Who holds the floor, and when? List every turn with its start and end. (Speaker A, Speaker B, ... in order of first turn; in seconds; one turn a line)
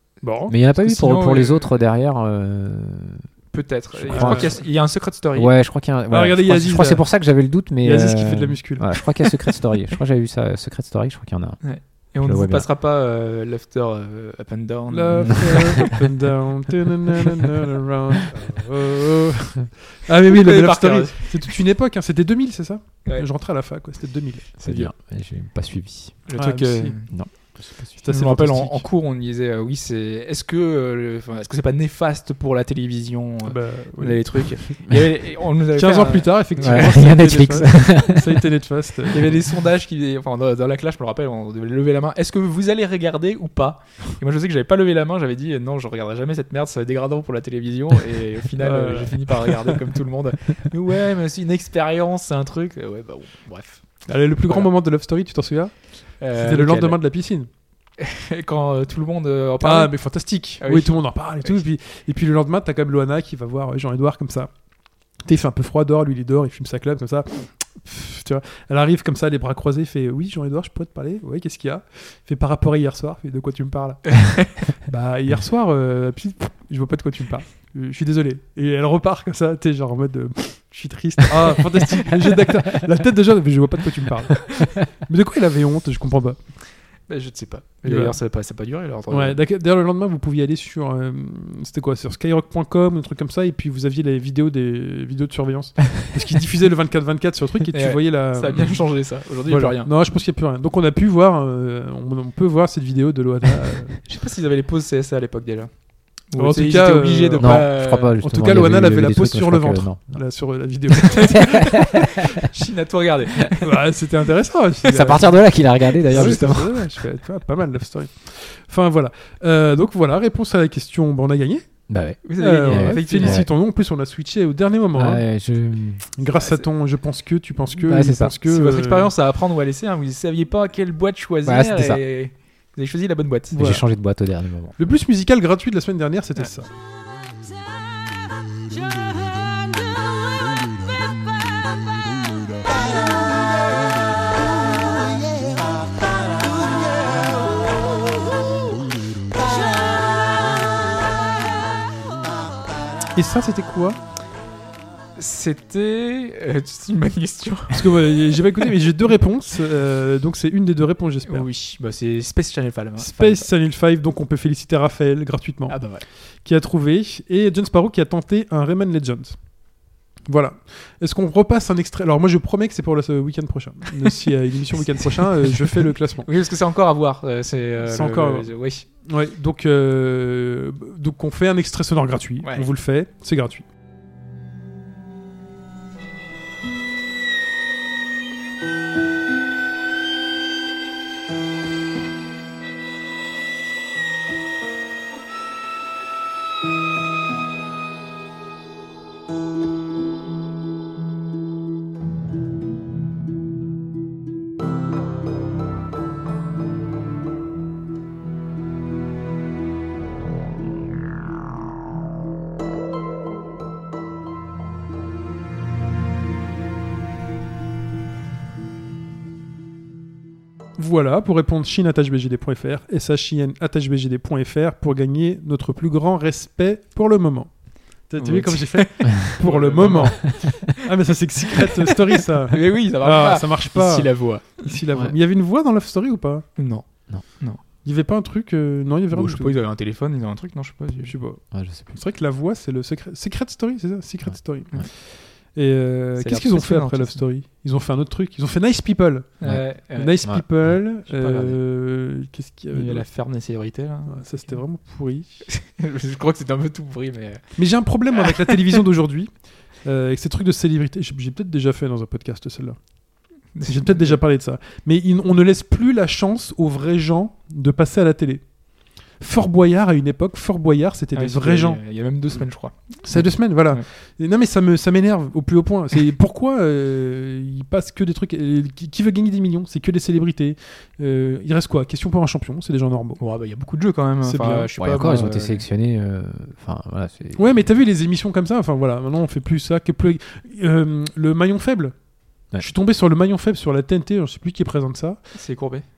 Speaker A: 0.2-0.6
Speaker B: 0.5-3.2
Speaker C: 0.8-1.7
Speaker C: 3.5-5.5
Speaker A: 4.1-4.6
Speaker B: 4.1-4.6
Speaker B: 5.3-11.6
Speaker A: 6.1-7.1
Speaker A: 7.8-9.5
Speaker C: 11.6-16.0
Speaker B: 12.2-12.7
Speaker A: 14.9-24.6
Speaker B: 15.2-15.6
Speaker C: 20.2-21.5
Speaker B: 24.6-26.3
Speaker C: 24.6-24.9
Speaker C: 26.3-27.1
Speaker A: 26.4-27.1
Speaker B: 27.1-28.0
Speaker A: 28.0-28.9
Speaker C: 28.1-36.9
Speaker A: 33.5-34.7
Speaker A: 35.8-39.4
Speaker B: 36.6-38.4
Speaker C: 39.1-53.9
Speaker A: 48.6-49.8
Speaker A: 54.1-57.5
Speaker C: 56.2-57.0
Speaker C: 58.0-60.0
Speaker A: 59.6-64.5
Speaker C: 60.6-61.6
Speaker A: 65.3-86.4
Speaker C: 74.2-74.6
Speaker C: 87.1-89.4
Speaker A: 87.8-88.2
Speaker A: 89.1-98.8
Speaker C: 97.7-99.9
Speaker A: 99.5-104.0
Speaker C: 104.1-105.7
Speaker C: 106.3-108.1
Speaker A: 106.4-112.0
Speaker B: 107.4-110.2
Speaker C: 111.0-113.7
Speaker B: 111.3-112.4
Speaker A: 113.6-115.5
Speaker B: 114.8-116.9
Speaker A: 116.0-121.7
Speaker C: 116.1-116.6
Speaker B: 121.9-123.5
Speaker C: 122.2-123.5
Speaker A: 122.4-125.3
Speaker B: 124.9-126.0
Speaker A: 126.2-129.1
Speaker B: 127.8-128.3
Speaker C: 128.4-133.6
Speaker B: 131.4-132.0
Speaker A: 133.5-133.8
Speaker B: 133.6-134.8
Speaker A: 134.8-136.7
Speaker A: 153.2-154.0
Speaker C: 155.2-157.9
Speaker A: 157.7-161.5
Speaker C: 161.3-163.5
Speaker A: 163.0-165.8
Speaker C: 165.7-166.1
Speaker A: 166.4-169.4
Speaker A: 170.3-176.3
Speaker C: 175.7-178.8
Speaker A: 177.8-178.5
Speaker A: 179.1-183.7
Speaker C: 182.4-182.7
Speaker A: 220.8-227.5
Speaker A: 228.1-236.5
Speaker C: 228.2-230.8
Speaker C: 232.5-234.7
Speaker C: 236.6-236.9
Speaker A: 237.8-239.6
Speaker C: 239.1-241.1
Speaker A: 241.1-244.9
Speaker B: 241.5-242.0
Speaker A: 245.5-253.1
Speaker C: 246.2-247.2
Speaker C: 249.4-250.3
Speaker C: 251.1-251.6
Speaker C: 252.7-254.6
Speaker A: 254.1-255.4
Speaker C: 255.5-257.4
Speaker A: 257.6-259.3
Speaker C: 258.2-258.8
Speaker A: 259.8-262.8
Speaker C: 263.6-264.2
Speaker A: 263.7-268.4
Speaker A: 269.2-271.8
Speaker C: 271.1-273.8
Speaker A: 273.0-283.2
Speaker C: 283.2-285.6
Speaker A: 284.2-284.7
Speaker B: 284.8-287.5
Speaker A: 287.4-291.9
Speaker A: 292.6-295.2
Speaker C: 295.4-295.9